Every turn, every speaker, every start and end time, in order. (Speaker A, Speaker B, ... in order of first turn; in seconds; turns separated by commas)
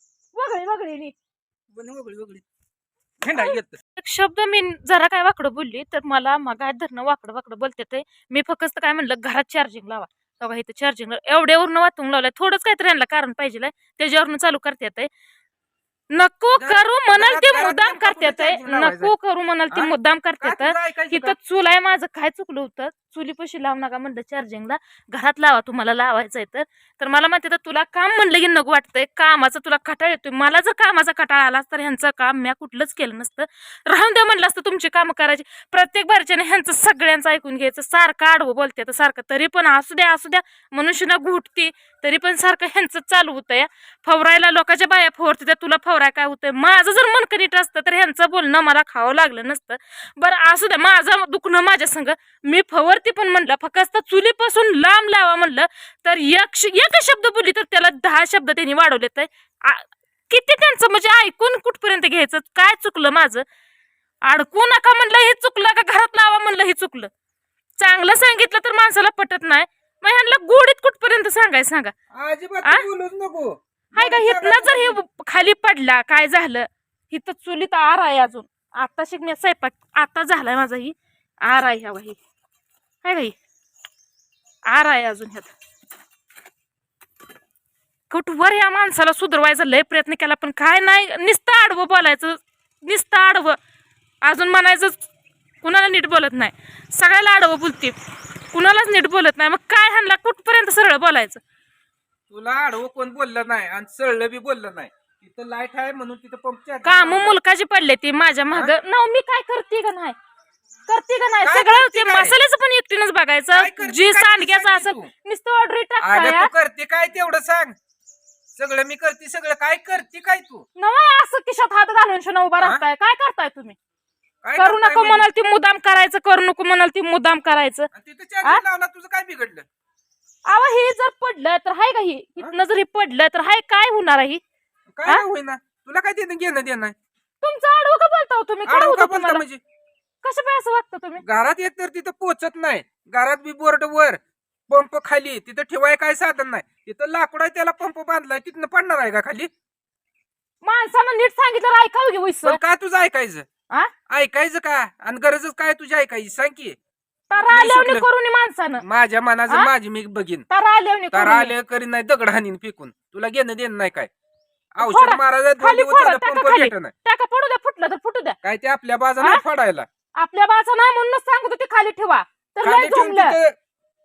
Speaker A: 0.3-1.1, Speaker B: 1.7-2.5, Speaker B: 3.2-3.8, Speaker A: 3.3-15.1, Speaker A: 16.1-63.5, Speaker B: 16.5-19.1, Speaker B: 19.7-21.4, Speaker A: 64.2-67.1, Speaker A: 67.8-71.9, Speaker B: 72.1-75.0, Speaker A: 74.0-82.2, Speaker A: 83.0-83.3, Speaker A: 84.7-85.5, Speaker A: 88.1-93.6, Speaker A: 94.2-95.0, Speaker A: 95.6-98.0, Speaker A: 98.5-101.4, Speaker B: 102.3-107.4, Speaker A: 106.8-110.2, Speaker A: 110.9-116.5, Speaker B: 111.4-112.3, Speaker B: 113.5-115.1, Speaker B: 116.0-117.8, Speaker B: 118.5-120.7, Speaker A: 120.8-123.8, Speaker B: 124.4-125.3, Speaker A: 124.6-127.9, Speaker B: 127.9-129.7, Speaker A: 130.5-134.4, Speaker B: 135.0-136.9, Speaker A: 137.4-139.4, Speaker B: 138.7-139.6, Speaker A: 140.2-141.2, Speaker B: 141.2-149.5, Speaker A: 150.6-152.6, Speaker B: 152.4-153.5, Speaker B: 154.1-156.8, Speaker A: 157.3-158.8, Speaker B: 157.3-158.1, Speaker B: 158.8-160.5, Speaker A: 160.5-161.5, Speaker B: 161.1-164.1, Speaker B: 164.7-166.9, Speaker A: 164.8-168.4, Speaker B: 168.4-169.9, Speaker A: 170.2-173.4, Speaker B: 172.6-173.6